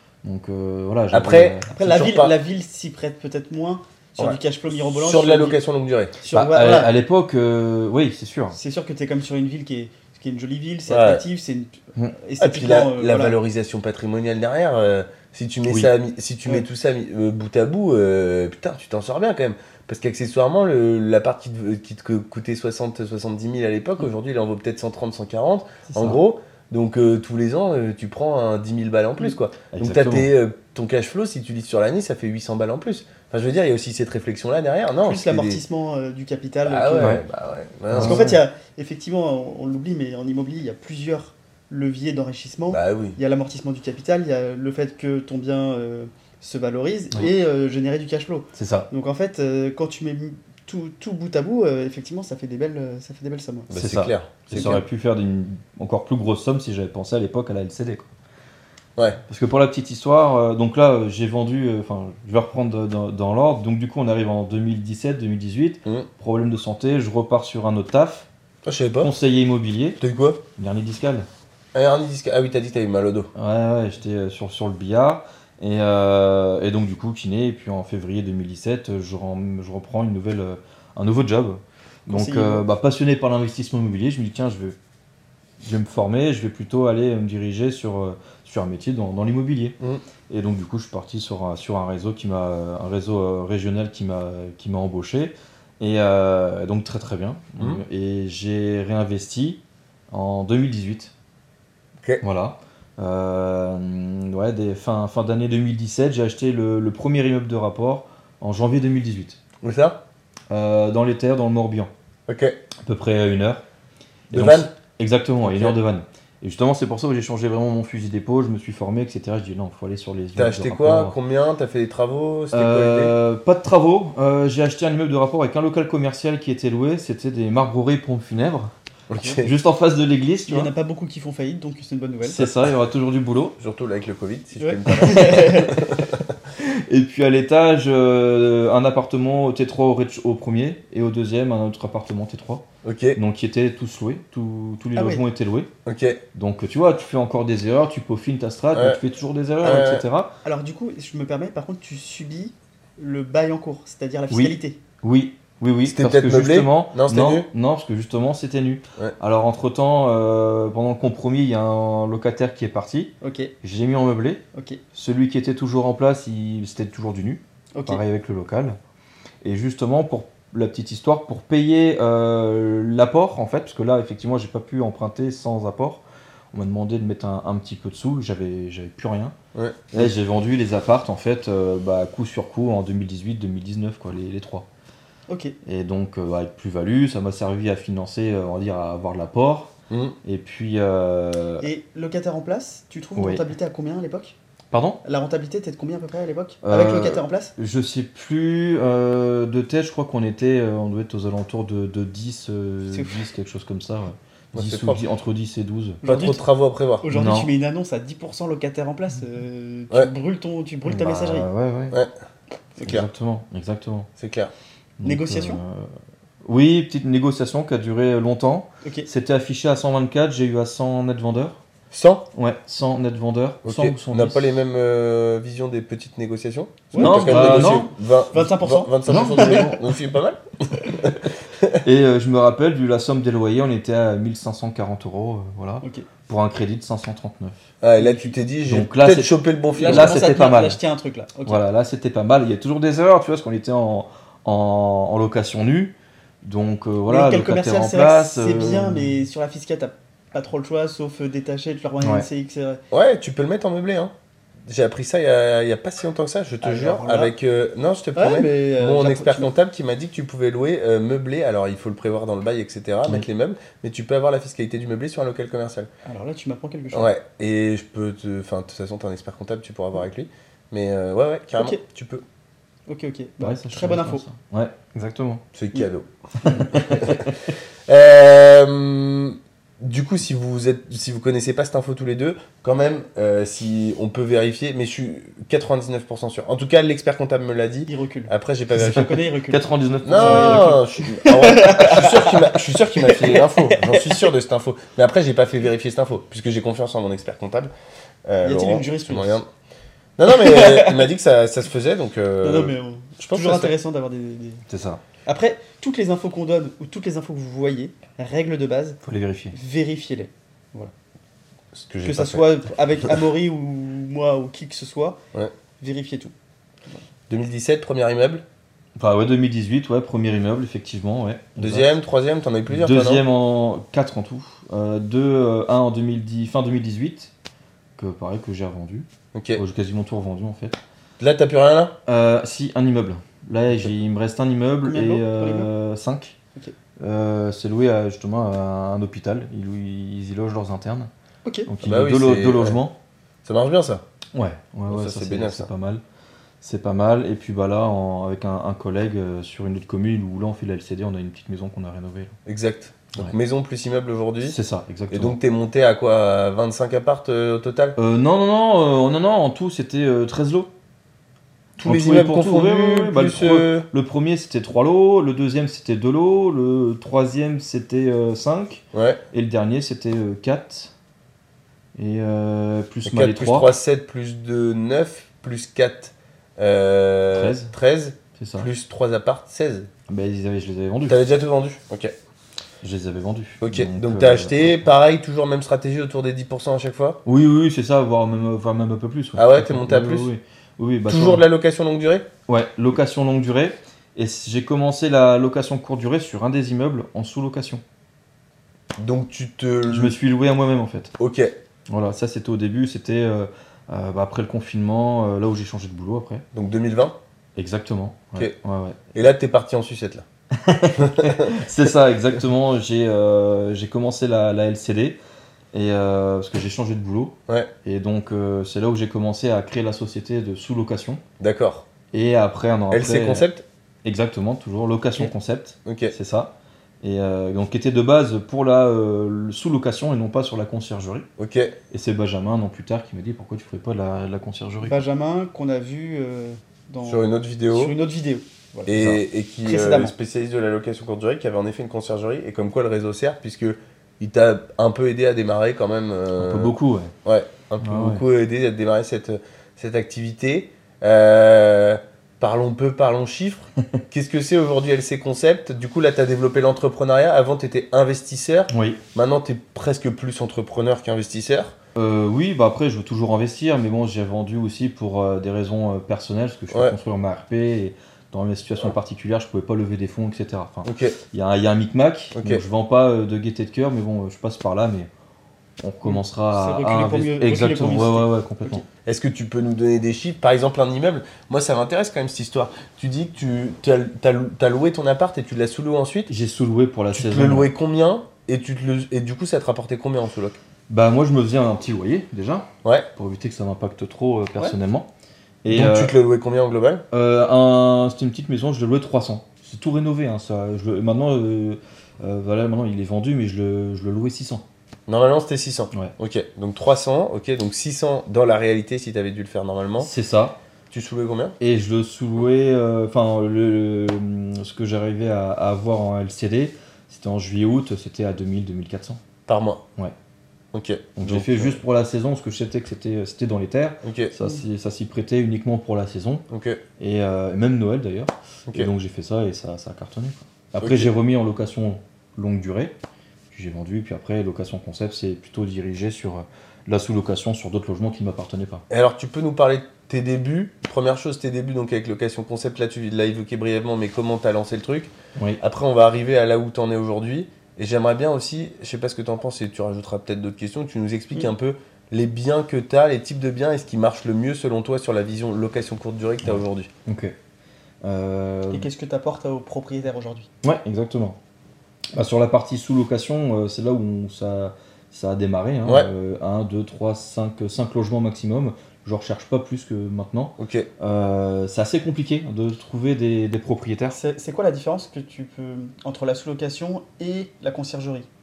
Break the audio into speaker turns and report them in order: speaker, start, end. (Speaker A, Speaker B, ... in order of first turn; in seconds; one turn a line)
Speaker A: 0.2-1.7
Speaker B: 1.1-2.3
Speaker C: 1.7-5.6
Speaker B: 4.2-6.1
Speaker C: 6.2-6.9
Speaker A: 6.3-8.6
Speaker C: 8.5-13.3
Speaker B: 10.9-11.2
Speaker B: 12.4-35.6
Speaker A: 25.9-26.2
Speaker A: 29.7-30.3
Speaker C: 35.0-37.2
Speaker B: 36.6-38.4
Speaker A: 37.9-38.4
Speaker C: 37.9-53.7
Speaker B: 42.7-43.2
Speaker A: 48.5-48.9
Speaker B: 53.7-54.8
Speaker A: 53.7-58.1
Speaker C: 54.5-54.8
Speaker A: 59.3-68.3
Speaker B: 68.7-69.1
Speaker A: 69.0-70.0
Speaker B: 70.0-70.4
Speaker A: 70.5-71.3
Speaker B: 71.7-73.3
Speaker A: 73.3-84.8
Speaker C: 82.1-82.6
Speaker A: 85.6-89.8
Speaker A: 90.3-101.1
Speaker A: 102.2-109.4
Speaker B: 109.6-110.0
Speaker A: 110.5-111.9
Speaker B: 112.3-112.6
Speaker A: 112.8-113.6
Speaker A: 114.3-121.1
Speaker B: 114.3-114.7
Speaker B: 115.4-115.7
Speaker B: 120.3-123.1
Speaker A: 122.5-128.7
Speaker B: 129.1-129.5
Speaker A: 129.4-130.7
Speaker C: 130.4-132.4
Speaker A: 132.2-133.6
Speaker B: 133.6-136.2
Speaker C: 134.6-135.9
Speaker A: 134.9-142.6
Speaker B: 142.8-143.2
Speaker A: 143.2-145.7
Speaker C: 144.9-145.2
Speaker B: 145.8-146.2
Speaker A: 146.3-150.3
Speaker B: 148.7-149.0
Speaker B: 149.6-150.0
Speaker C: 150.4-154.8
Speaker A: 154.3-164.4
Speaker B: 155.8-157.5
Speaker C: 163.2-163.5
Speaker C: 164.5-164.8
Speaker A: 164.9-168.8
Speaker C: 167.7-168.0
Speaker A: 169.4-179.3
Speaker B: 179.5-180.1
Speaker A: 179.9-184.7
Speaker C: 185.3-185.6
Speaker A: 185.7-189.7
Speaker B: 189.9-190.1
Speaker A: 190.2-191.7
Speaker C: 191.6-194.3
Speaker A: 193.2-193.5
Speaker A: 194.7-195.0
Speaker C: 195.0-197.5
Speaker A: 196.6-206.0
Speaker C: 202.9-203.2
Speaker B: 204.5-205.0
Speaker C: 206.0-206.4
Speaker B: 206.0-207.1
Speaker C: 207.0-211.5
Speaker A: 207.1-207.5
Speaker A: 210.8-212.0
Speaker B: 212.8-213.1
Speaker A: 212.8-214.1
Speaker B: 214.2-214.5
Speaker A: 215.0-215.9
Speaker C: 215.0-215.6
Speaker A: 216.4-221.6
Speaker B: 221.9-222.2
Speaker A: 222.3-224.5
Speaker B: 223.6-231.8
Speaker C: 226.9-229.8
Speaker A: 227.0-227.9
Speaker A: 229.1-229.7
Speaker A: 231.8-237.6
Speaker B: 237.8-240.2
Speaker C: 238.0-238.3
Speaker A: 238.7-240.8
Speaker C: 239.8-241.6
Speaker A: 241.4-249.2
Speaker C: 247.1-252.8
Speaker A: 252.0-252.3
Speaker B: 252.9-254.1
Speaker B: 254.7-265.9
Speaker C: 256.6-257.3
Speaker C: 258.1-259.5
Speaker C: 266.0-267.1
Speaker B: 266.9-272.2
Speaker C: 272.9-274.2
Speaker A: 273.4-275.4
Speaker B: 275.5-277.3
Speaker A: 276.4-277.5
Speaker B: 277.9-289.1
Speaker C: 287.9-294.2
Speaker A: 288.8-290.8
Speaker B: 290.0-297.7
Speaker A: 293.0-293.4
Speaker B: 298.2-299.5
Speaker C: 298.4-299.4
Speaker B: 300.2-303.7
Speaker C: 300.3-301.1
Speaker C: 302.4-304.6
Speaker A: 304.7-305.0
Speaker C: 305.2-309.0
Speaker A: 309.0-309.5
Speaker C: 309.5-310.9
Speaker B: 311.7-312.5
Speaker C: 312.0-315.2
Speaker C: 315.8-316.3
Speaker B: 317.3-318.4
Speaker A: 318.9-321.9
Speaker B: 321.6-323.2
Speaker A: 322.7-327.3
Speaker A: 328.0-330.8
Speaker B: 329.3-329.6
Speaker B: 331.2-331.9
Speaker A: 332.1-336.4
Speaker C: 334.8-335.7
Speaker A: 337.0-341.1
Speaker C: 341.4-341.7
Speaker A: 341.7-342.9
Speaker B: 341.8-342.8
Speaker B: 343.4-344.0
Speaker A: 344.3-346.0
Speaker B: 344.9-345.7
Speaker A: 346.6-352.3
Speaker B: 352.4-354.6
Speaker A: 354.4-355.4
Speaker B: 355.1-358.0
Speaker A: 358.0-360.7
Speaker B: 361.8-363.9
Speaker A: 361.8-370.9
Speaker B: 368.9-369.2
Speaker A: 371.9-373.7
Speaker B: 373.1-379.9
Speaker A: 377.3-377.7
Speaker A: 378.4-378.7
Speaker A: 380.1-381.2
Speaker B: 381.1-382.1
Speaker A: 382.8-384.7
Speaker B: 383.6-387.2
Speaker A: 387.2-391.4
Speaker B: 389.4-390.3
Speaker B: 391.1-392.3
Speaker A: 392.5-397.8
Speaker B: 399.0-400.1
Speaker A: 399.9-401.1
Speaker B: 401.2-401.5
Speaker A: 401.9-406.4
Speaker B: 406.5-407.1
Speaker A: 407.6-409.0
Speaker B: 409.1-410.2
Speaker A: 410.5-415.2
Speaker B: 411.0-411.6
Speaker A: 415.7-421.2
Speaker B: 421.4-421.9
Speaker A: 422.1-423.5
Speaker B: 422.9-423.6
Speaker A: 424.0-431.3
Speaker B: 425.8-426.1
Speaker B: 431.4-431.8
Speaker A: 431.9-435.0
Speaker C: 434.8-438.9
Speaker B: 437.0-437.9
Speaker B: 438.9-461.7
Speaker A: 438.9-439.2
Speaker C: 439.6-440.1
Speaker A: 446.4-447.1
Speaker A: 447.8-448.2
Speaker A: 458.7-459.0
Speaker A: 461.9-475.1
Speaker B: 470.8-471.1
Speaker B: 472.3-472.6
Speaker A: 475.8-478.8
Speaker C: 476.0-478.8
Speaker B: 479.1-486.3
Speaker A: 486.3-487.7
Speaker B: 487.1-490.6
Speaker A: 490.9-495.1
Speaker A: 495.6-496.1
Speaker B: 495.7-497.0
Speaker A: 497.1-504.6
Speaker B: 505.1-510.1
Speaker A: 510.0-510.6
Speaker B: 510.9-511.6
Speaker A: 511.6-519.2
Speaker B: 519.5-519.8
Speaker B: 520.7-521.8
Speaker A: 521.2-526.4
Speaker B: 524.0-524.3
Speaker B: 526.5-526.8
Speaker A: 527.0-532.9
Speaker B: 530.8-531.1
Speaker A: 533.5-538.8
Speaker B: 538.9-556.9
Speaker A: 556.4-557.4
Speaker A: 558.0-558.9
Speaker C: 558.7-560.5
Speaker A: 560.6-561.4
Speaker A: 562.1-574.2
Speaker B: 570.6-570.9
Speaker C: 574.1-578.3